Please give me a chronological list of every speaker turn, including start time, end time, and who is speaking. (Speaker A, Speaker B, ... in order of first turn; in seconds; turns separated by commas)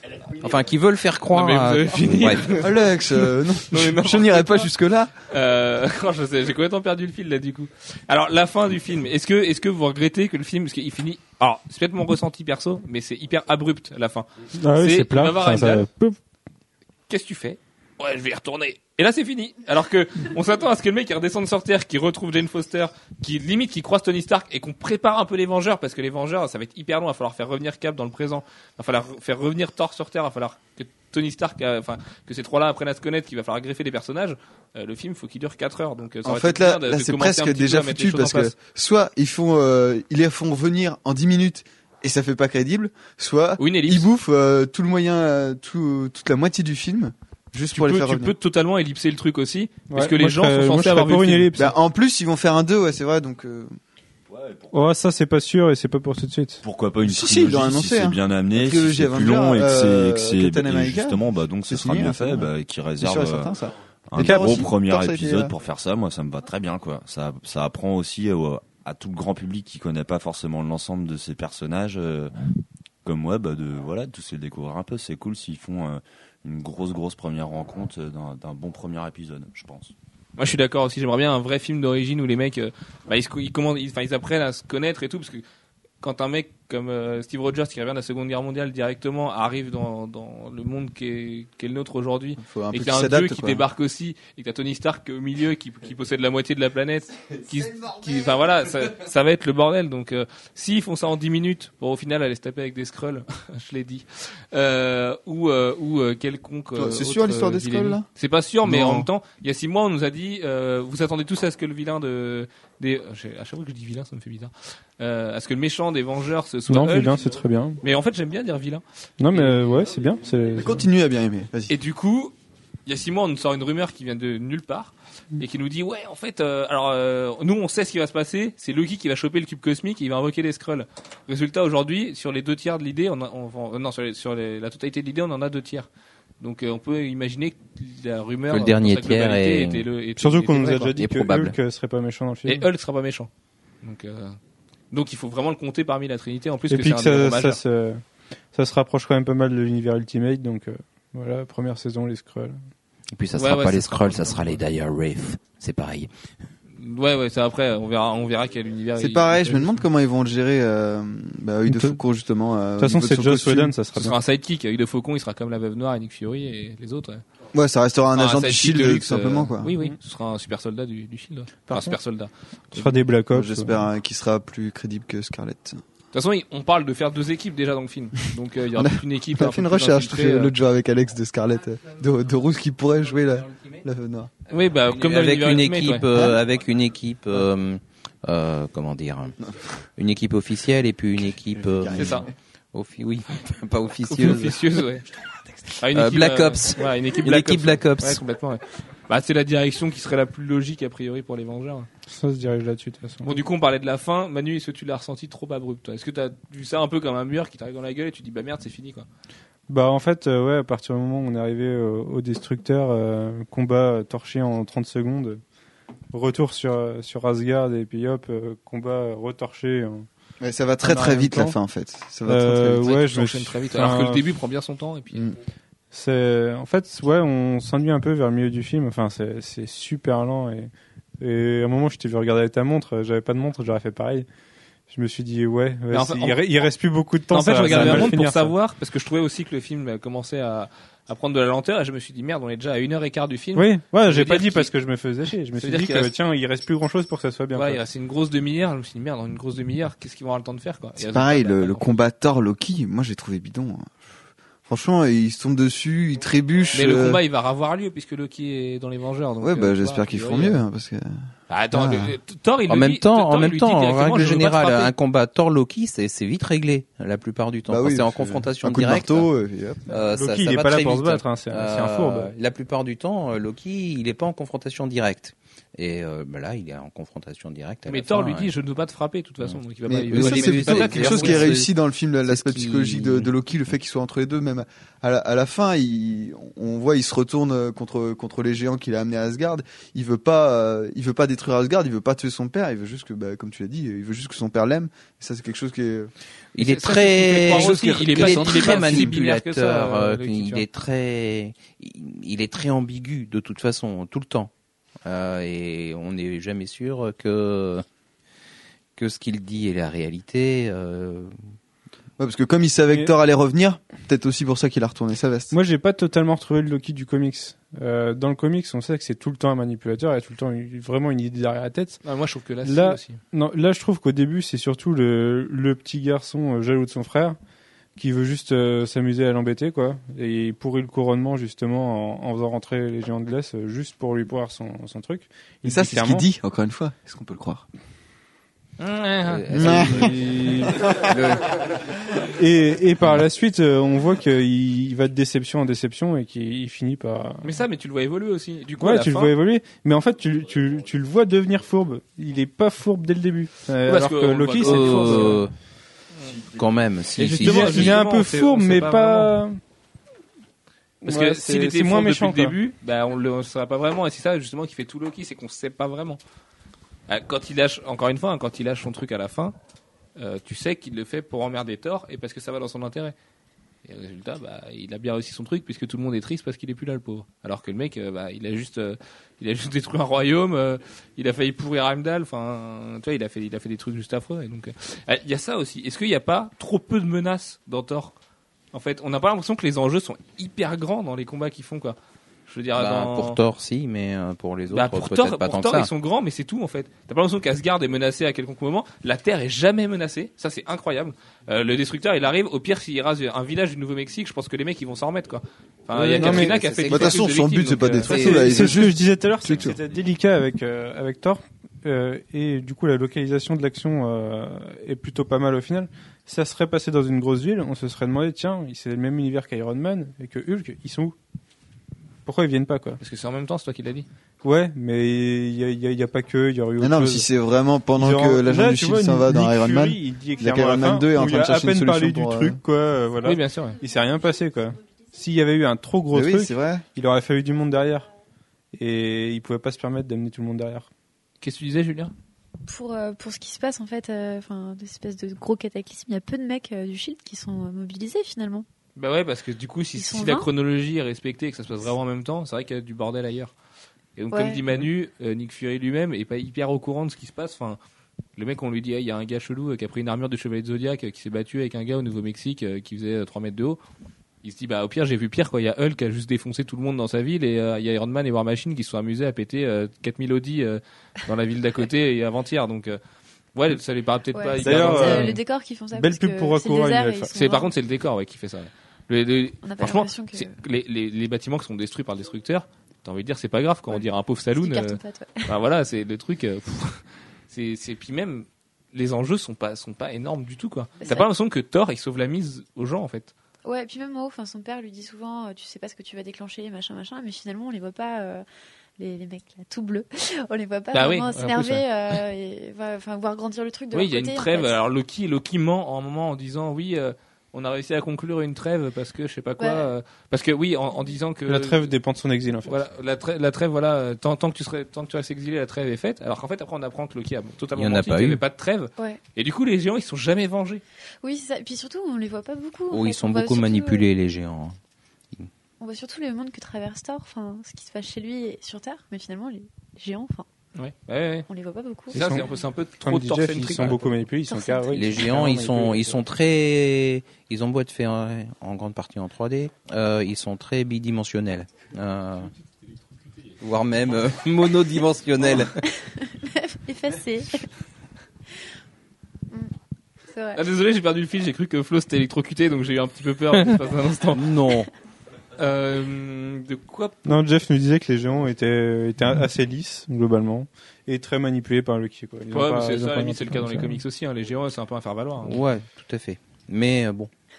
Speaker A: 0.4-2.5, Speaker B: 1.3-3.0, Speaker C: 2.5-5.1, Speaker B: 3.6-4.7, Speaker B: 5.2-15.8, Speaker D: 14.6-16.1, Speaker B: 17.1-38.5, Speaker C: 36.2-48.3, Speaker B: 43.6-44.1, Speaker B: 47.7-51.5, Speaker D: 49.9-51.7, Speaker C: 51.5-53.7, Speaker E: 54.3-55.0, Speaker D: 54.7-56.6, Speaker E: 56.6-63.5, Speaker C: 57.0-65.5, Speaker E: 64.1-72.3, Speaker D: 64.2-64.7, Speaker E: 73.0-79.9, Speaker B: 80.4-85.4, Speaker B: 86.0-119.8, Speaker C: 92.4-93.6, Speaker C: 106.8-108.0, Speaker C: 108.7-109.1, Speaker D: 116.7-117.8, Speaker D: 119.2-120.8, Speaker C: 120.5-121.7, Speaker B: 121.7-122.3, Speaker B: 122.8-135.9, Speaker B: 136.4-140.9, Speaker A: 138.5-139.8, Speaker D: 140.2-142.7, Speaker A: 141.0-141.5, Speaker B: 142.4-143.3, Speaker B: 143.8-144.4, Speaker B: 144.9-147.6, Speaker D: 146.7-148.0, Speaker D: 148.5-152.6, Speaker A: 153.1-156.1, Speaker B: 153.3-154.6, Speaker B: 156.8-159.8, Speaker C: 159.0-163.7, Speaker D: 161.7-162.0, Speaker D: 162.8-164.2, Speaker B: 163.9-167.2, Speaker C: 167.5-169.7, Speaker B: 168.1-173.0, Speaker D: 171.7-171.9, Speaker D: 172.7-173.8, Speaker C: 173.3-175.8, Speaker B: 176.1-180.5, Speaker C: 178.7-184.3, Speaker B: 184.5-186.1, Speaker A: 184.8-189.4, Speaker A: 190.0-194.8, Speaker C: 191.6-192.2, Speaker B: 191.9-192.3, Speaker B: 194.1-195.0, Speaker A: 195.7-198.2, Speaker B: 195.8-201.9, Speaker D: 202.1-203.4, Speaker B: 203.2-209.1, Speaker D: 209.7-215.4, Speaker D: 216.1-220.1, Speaker C: 220.4-222.9, Speaker D: 220.8-221.6, Speaker D: 222.3-224.2, Speaker B: 222.8-225.3, Speaker D: 225.9-234.2, Speaker D: 234.9-238.5, Speaker B: 235.9-236.4, Speaker B: 237.3-244.7, Speaker D: 243.5-247.8, Speaker B: 245.6-246.1, Speaker B: 247.5-251.9, Speaker C: 251.0-253.9, Speaker C: 254.7-257.2, Speaker B: 256.7-260.6, Speaker C: 259.4-261.1, Speaker B: 261.5-264.9, Speaker C: 261.7-262.1, Speaker A: 262.7-269.3, Speaker C: 267.7-269.8, Speaker A: 269.9-278.5, Speaker D: 270.1-272.3, Speaker B: 277.9-281.5, Speaker C: 279.9-296.1, Speaker A: 280.1-281.7, Speaker A: 282.3-283.3, Speaker A: 296.5-304.5, Speaker B: 296.6-300.6, Speaker A: 305.0-307.8, Speaker A: 308.9-311.4, Speaker C: 312.2-315.5, Speaker D: 315.5-322.0, Speaker B: 322.0-323.2, Speaker D: 322.6-327.4, Speaker D: 328.0-336.2, Speaker C: 335.6-337.6, Speaker B: 338.8-340.1, Speaker A: 339.2-341.7, Speaker C: 339.5-340.1, Speaker C: 340.6-341.2, Speaker D: 342.2-347.5, Speaker B: 347.4-349.3, Speaker D: 348.8-355.4, Speaker B: 353.9-355.4, Speaker A: 354.6-355.5, Speaker A: 356.5-358.0, Speaker B: 357.2-359.3, Speaker D: 357.2-359.6, Speaker D: 361.0-362.6, Speaker B: 361.0-366.2, Speaker B: 367.1-369.5, Speaker B: 370.2-373.1, Speaker B: 373.8-388.1, Speaker B: 388.7-393.4, Speaker A: 392.8-395.9, Speaker B: 394.7-408.1, Speaker A: 405.9-407.2, Speaker D: 406.1-406.5, Speaker C: 406.9-409.8, Speaker A: 408.1-408.7, Speaker D: 408.1-421.1, Speaker D: 422.2-423.0, Speaker B: 423.0-424.1, Speaker D: 424.4-427.3, Speaker C: 426.8-432.6, Speaker D: 428.0-438.1, Speaker B: 433.2-433.8, Speaker C: 436.1-436.8, Speaker D: 438.7-440.9, Speaker B: 441.4-442.1, Speaker F: 442.7-448.6, Speaker B: 449.0-453.5, Speaker F: 449.9-450.5, Speaker B: 454.1-457.8, Speaker F: 454.3-454.6, Speaker B: 458.4-463.8, Speaker B: 464.4-473.0, Speaker B: 473.5-475.4, Speaker F: 474.3-477.7, Speaker D: 474.6-477.3, Speaker B: 477.3-493.3, Speaker F: 479.6-480.6, Speaker F: 483.9-485.5, Speaker F: 491.0-491.3, Speaker F: 493.6-498.4, Speaker F: 499.0-504.8, Speaker B: 500.9-502.2, Speaker B: 503.9-511.9, Speaker F: 509.6-509.9, Speaker D: 511.5-512.8, Speaker B: 512.6-520.8, Speaker A: 517.8-518.4, Speaker F: 521.2-524.1, Speaker A: 522.9-524.8, Speaker F: 525.8-530.5, Speaker B: 530.8-531.5, Speaker F: 531.5-532.2, Speaker B: 532.1-534.1, Speaker D: 532.1-532.5, Speaker D: 533.0-536.2, Speaker F: 534.5-535.0, Speaker A: 534.9-542.5, Speaker A: 543.6-545.8, Speaker F: 546.0-547.7, Speaker F: 550.3-550.6, Speaker B: 550.5-554.5, Speaker A: 554.3-554.9, Speaker B: 555.6-557.3, Speaker D: 557.2-564.0, Speaker B: 562.5-565.6, Speaker A: 565.4-567.3